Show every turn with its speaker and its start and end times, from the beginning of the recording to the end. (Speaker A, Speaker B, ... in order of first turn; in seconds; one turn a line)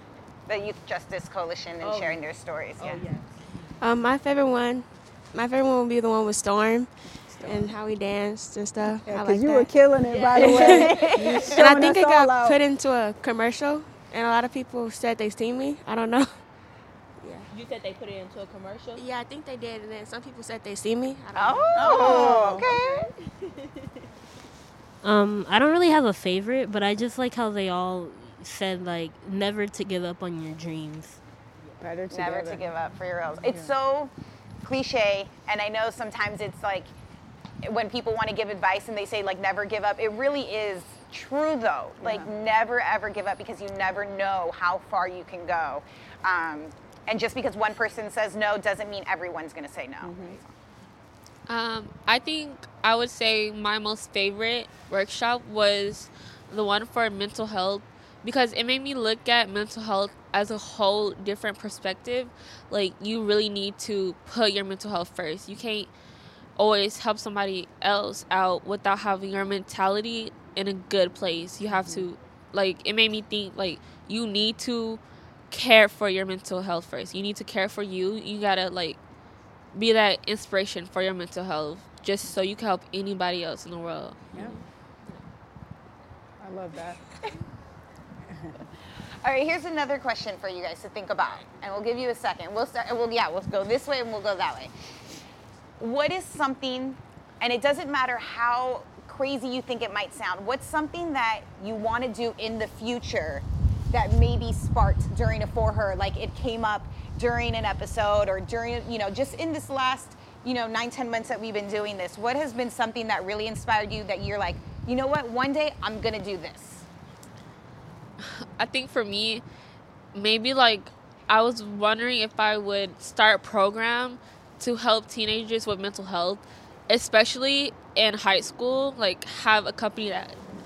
Speaker A: 0.5-3.0
Speaker B: 1.8-2.2
Speaker B: 2.8-3.7
Speaker C: 3.8-9.7
Speaker D: 7.0-7.7
Speaker D: 9.0-12.6
Speaker B: 10.0-11.7
Speaker C: 10.3-16.4
Speaker C: 17.2-17.5
Speaker B: 17.5-19.0
Speaker C: 19.0-22.0
Speaker A: 21.3-23.1
Speaker D: 21.7-22.7
Speaker B: 21.8-24.1
Speaker E: 25.0-31.2
Speaker D: 31.8-32.6
Speaker A: 32.1-34.1
Speaker D: 33.5-33.7
Speaker A: 34.6-36.9
Speaker A: 37.6-50.5
Speaker D: 42.0-42.3
Speaker D: 50.0-50.4
Speaker F: 51.5-65.9
Speaker F: 66.6-79.0
Speaker D: 71.7-72.1
Speaker F: 79.7-84.3
Speaker D: 86.4-87.0
Speaker D: 88.3-88.5
Speaker A: 89.2-95.0
Speaker A: 95.8-116.8
Speaker F: 118.3-119.4
Speaker F: 120.1-130.4